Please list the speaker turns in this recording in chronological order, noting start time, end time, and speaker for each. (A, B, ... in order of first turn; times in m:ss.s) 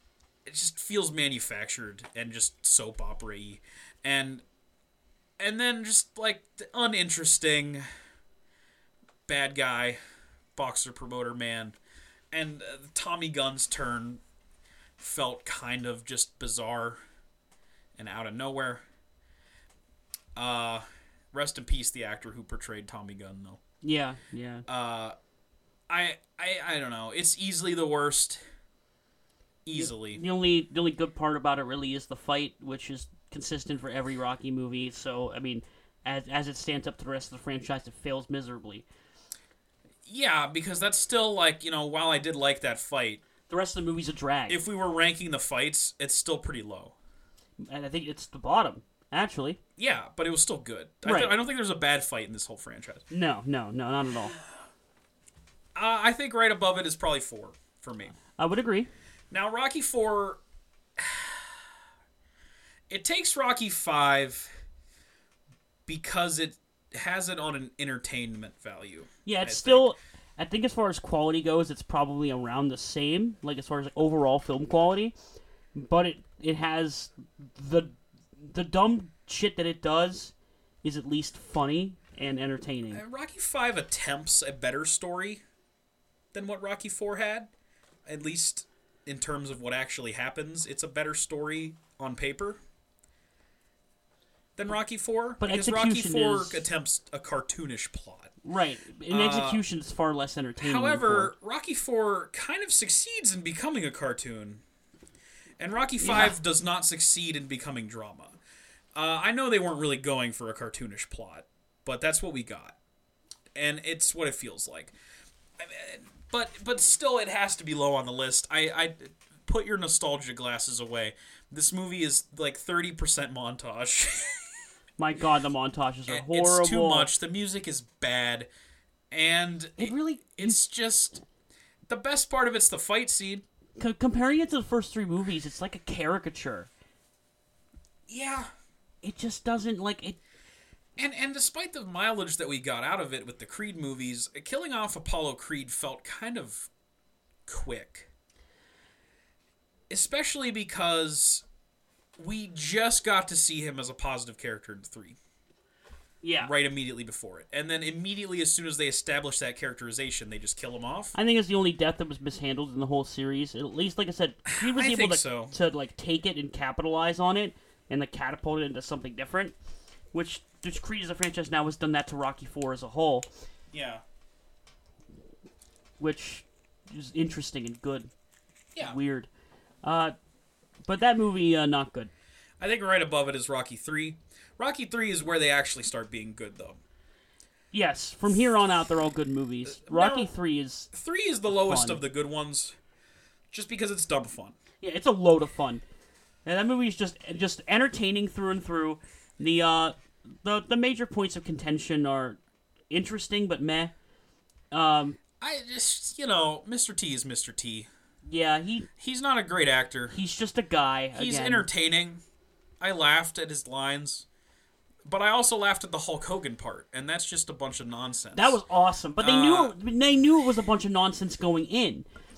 0:00.4-0:04.4 A
0:05.4-0:07.8 A
0:09.3-0:10.0 A
0:10.5-0:11.8 A
0:12.3-0:14.2 A
0:15.0-0:17.0 A
0:18.0-0:18.8 A
0:20.3-0:23.6 A
0:23.8-0:24.6 B
0:24.7-0:25.2 A
0:25.9-0:28.4 A
0:29.6-0:30.2 A
0:29.7-0:38.8 B
0:40.0-0:43.2 A
0:43.5-0:44.6 B
0:44.5-0:47.0 A
0:47.6-0:49.6 B
0:49.8-0:53.0 A
0:51.0-0:51.4 B
0:53.1-0:54.3 B
0:55.7-0:58.2 A
0:58.4-0:58.9 B
0:59.3-1:00.4 A
1:01.0-1:01.6 A
1:02.9-1:04.5 A
1:05.8-1:09.9 A
1:09.2-1:15.1 B
1:15.7-1:23.0 B
1:22.9-1:25.4 A
1:26.3-1:27.5 A
1:28.0-1:32.6 A
1:34.6-1:38.3 A
1:35.4-1:36.6 B
1:38.4-1:41.3 B
1:39.1-1:39.6 A
1:40.6-1:44.6 A
1:45.6-1:48.4 A
1:46.0-1:46.4 B
1:48.9-1:52.8 A
1:53.5-1:54.9 A
1:55.6-2:04.5 A
2:05.0-2:07.1 B
2:06.1-2:08.5 A
2:09.1-2:11.2 A
2:09.8-2:10.6 B
2:11.8-2:13.4 A
2:13.8-2:16.7 B
2:18.1-2:18.5 A
2:19.0-2:20.2 B
2:21.0-2:26.7 A
2:27.4-2:28.1 A
2:29.9-2:31.4 A
2:32.2-2:35.2 A
2:36.2-2:36.5 B
2:36.4-2:41.1 A
2:41.1-2:49.5 B
2:44.4-2:45.5 A
2:50.1-2:53.3 B
2:53.7-2:54.0 A
2:56.0-2:58.1 B
2:58.8-2:59.3 B
2:59.8-3:00.1 B
3:00.9-3:02.1 B
3:02.6-3:06.8 A
3:07.7-3:10.9 B
3:09.6-3:10.3 A
3:10.9-3:12.8 A
3:11.5-3:12.0 B
3:13.5-3:14.6 A
3:14.8-3:15.8 B
3:16.4-3:23.9 B
3:24.7-3:25.2 B
3:25.4-3:27.9 A
3:28.2-3:28.9 B
3:29.0-3:30.1 A
3:30.1-3:31.7 B
3:31.1-3:32.2 A
3:32.8-3:34.2 A
3:35.0-3:38.6 A
3:38.3-3:42.1 B
3:39.2-3:39.8 A